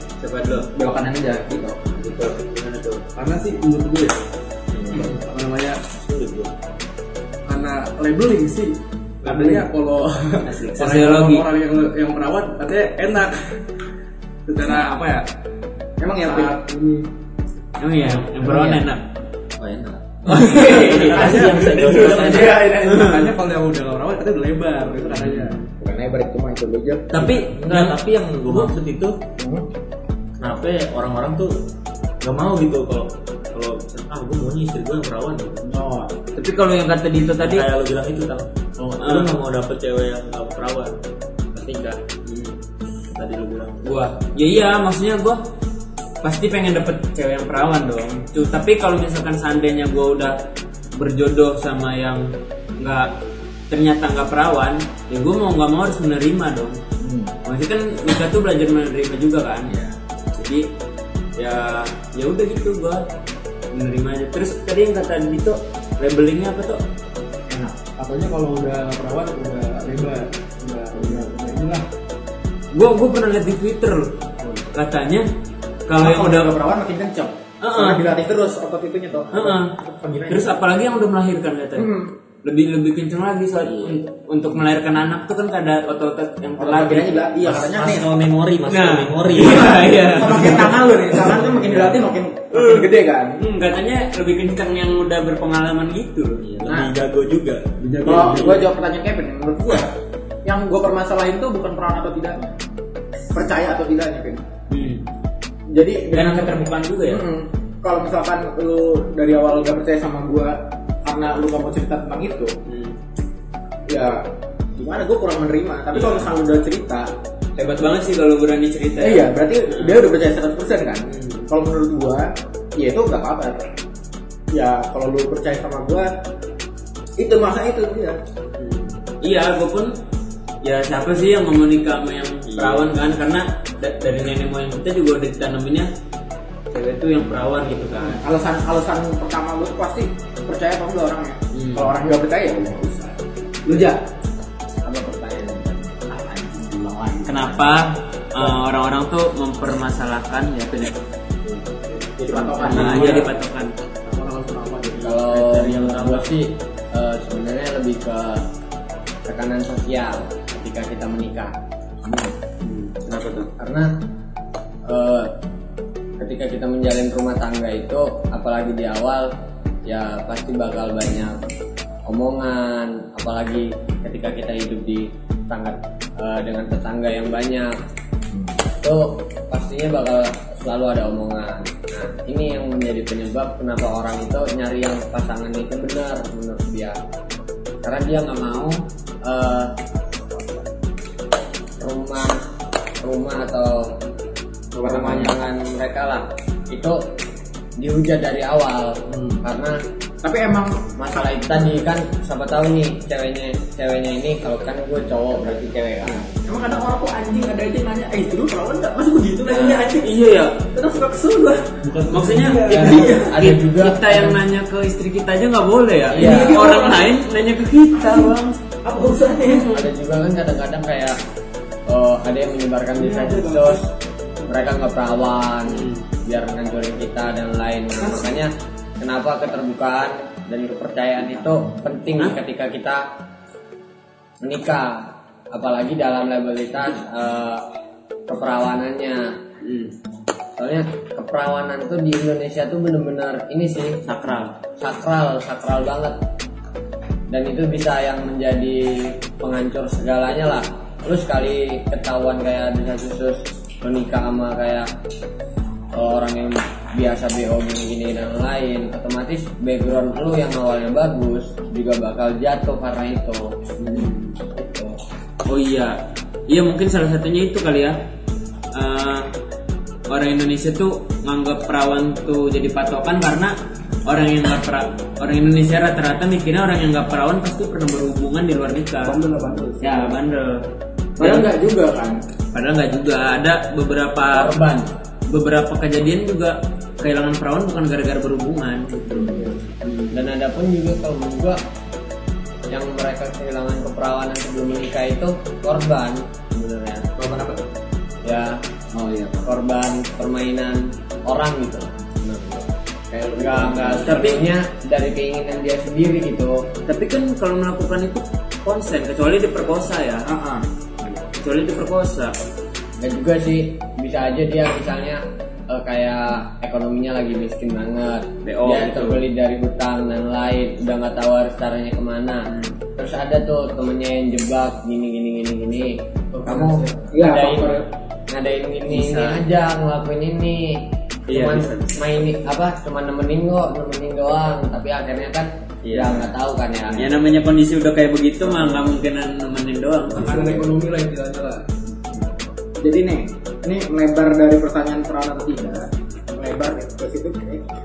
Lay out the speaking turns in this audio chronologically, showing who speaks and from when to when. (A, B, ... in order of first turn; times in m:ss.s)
0:00.2-0:00.7 A
0:00.7-0:01.8 B
0:01.8-0:03.0 A
0:03.2-0:04.2 C
0:04.7-0:05.2 D
0:05.1-0:05.8 C
0:05.9-0:06.6 D
0:07.5-0:13.6 C
0:09.2-0:09.6 B
0:10.4-0:11.4 A
0:14.5-0:15.2 C
0:16.0-0:16.6 B
0:16.2-0:17.1 C
0:17.8-0:19.0 A
0:18.4-0:18.7 B
0:19.6-0:22.8 D
0:20.3-0:23.2 A
0:20.4-0:23.2 B
0:21.0-0:25.6 C
0:25.2-0:25.6 A
0:25.7-0:27.3 B
0:27.1-0:28.7 A
0:27.3-0:29.2 D
0:29.4-0:29.6 B
0:30.4-0:31.5 D
0:32.2-0:35.6 D
0:35.6-0:36.2 B
0:36.3-0:37.6 A
0:37.3-0:41.0 D
0:39.0-0:39.4 A
0:41.5-0:42.5 A
0:43.1-0:43.8 D
0:43.8-0:45.4 A
0:46.2-0:50.4 A
0:50.9-0:53.1 A
0:53.7-0:56.8 A
0:57.0-0:57.3 B
0:57.4-0:59.7 A
1:00.4-1:00.7 A
1:01.4-1:03.0 A
1:03.7-1:06.8 A
1:07.5-1:07.8 B
1:08.0-1:11.8 C
1:12.7-1:15.3 A
1:15.9-1:16.5 A
1:16.0-1:20.5 B
1:17.6-1:18.0 A
1:19.3-1:19.7 A
1:20.3-1:21.9 A
1:21.8-1:22.1 B
1:22.4-1:27.3 A
1:26.6-1:28.1 B
1:27.4-1:30.2 D
1:28.6-1:30.8 A
1:29.4-1:33.4 B
1:31.1-1:32.0 C
1:32.5-1:36.4 A
1:36.4-1:38.6 D
1:36.7-1:36.9 B
1:37.8-1:38.6 C
1:38.0-1:39.9 B
1:40.4-1:42.4 B
1:43.3-1:44.4 B
1:44.7-1:45.1 A
1:45.7-1:52.6 B
1:46.1-1:47.2 A
1:52.6-1:53.0 A
1:53.9-1:57.1 B
1:55.9-1:56.3 A
1:57.6-2:00.1 A
1:59.0-2:03.7 B
2:01.1-2:01.5 A
2:04.5-2:06.1 B
2:07.2-2:08.2 B
2:08.6-2:09.9 A
2:10.6-2:15.9 A
2:12.5-2:12.9 D
2:16.7-2:18.2 A
2:18.0-2:24.0 B
2:21.5-2:21.9 A
2:24.8-2:25.9 E
2:26.0-2:27.8 B
2:27.2-2:31.0 A
2:32.0-2:33.3 B
2:32.6-2:33.7 A
2:32.6-2:33.3 C
2:34.0-2:35.0 C
2:35.0-2:36.3 D
2:35.0-2:38.5 E
2:39.2-2:41.6 E
2:42.6-2:43.0 A
2:43.0-2:43.5 D
2:43.6-2:43.9 E
2:44.9-2:45.3 E
2:46.2-2:49.3 E
2:49.8-2:51.4 E
2:52.1-2:57.7 E
2:58.7-3:07.0 E
3:07.8-3:09.7 E
3:11.8-3:12.4 E
3:13.0-3:13.9 E
3:14.7-3:15.3 B
3:14.8-3:17.0 E
3:17.8-3:19.8 E
3:19.1-3:19.4 B
3:20.2-3:20.9 B
3:21.0-3:26.3 E
3:26.4-3:30.1 B
3:29.5-3:30.6 A
3:30.7-3:31.8 B
3:31.9-3:32.9 C
3:32.0-3:38.6 A
3:32.7-3:33.4 B
3:32.7-3:34.4 E
3:36.1-3:36.6 E
3:36.1-3:37.1 B
3:38.0-3:39.7 B
3:39.4-3:39.8 A
3:39.7-3:41.2 E
3:41.9-3:43.8 E
3:43.0-3:43.8 C
3:44.4-3:53.0 E
3:45.7-3:46.0 A
3:54.4-3:57.6 E
3:58.3-3:59.3 E
3:59.6-3:59.9 A
4:00.6-4:04.0 E
4:04.1-4:04.5 A
4:04.8-4:06.2 E
4:07.3-4:14.9 E
4:15.9-4:24.0 E
4:23.8-4:24.4 A
4:24.5-4:25.0 E
4:25.4-4:28.1 A
4:28.7-4:29.3 A
4:30.1-4:33.5 A
4:34.0-4:39.2 A
4:39.0-4:40.2 C
4:39.8-4:40.7 A
4:41.2-4:41.5 A
4:41.2-4:42.2 B
4:42.5-4:44.6 A
4:44.3-4:44.9 B
4:45.3-4:50.2 A
4:49.2-4:49.5 B
4:50.1-4:51.6 E
4:52.7-4:57.0 E
4:57.2-4:57.6 B
4:58.2-4:58.6 E
4:59.0-4:59.3 B
4:59.4-5:02.7 E
5:03.1-5:04.2 B
5:03.3-5:06.6 E
5:03.9-5:04.4 A
5:06.9-5:10.3 A
5:10.2-5:10.6 B
5:11.3-5:12.4 A
5:13.0-5:37.1 E
5:18.4-5:19.2 A
5:22.5-5:22.8 A
5:27.1-5:27.8 B
5:28.9-5:29.4 A
5:31.3-5:31.9 A
5:35.9-5:36.3 A
5:35.9-5:36.2 D
5:37.0-5:40.5 A
5:40.1-5:41.6 C
5:42.8-5:47.6 B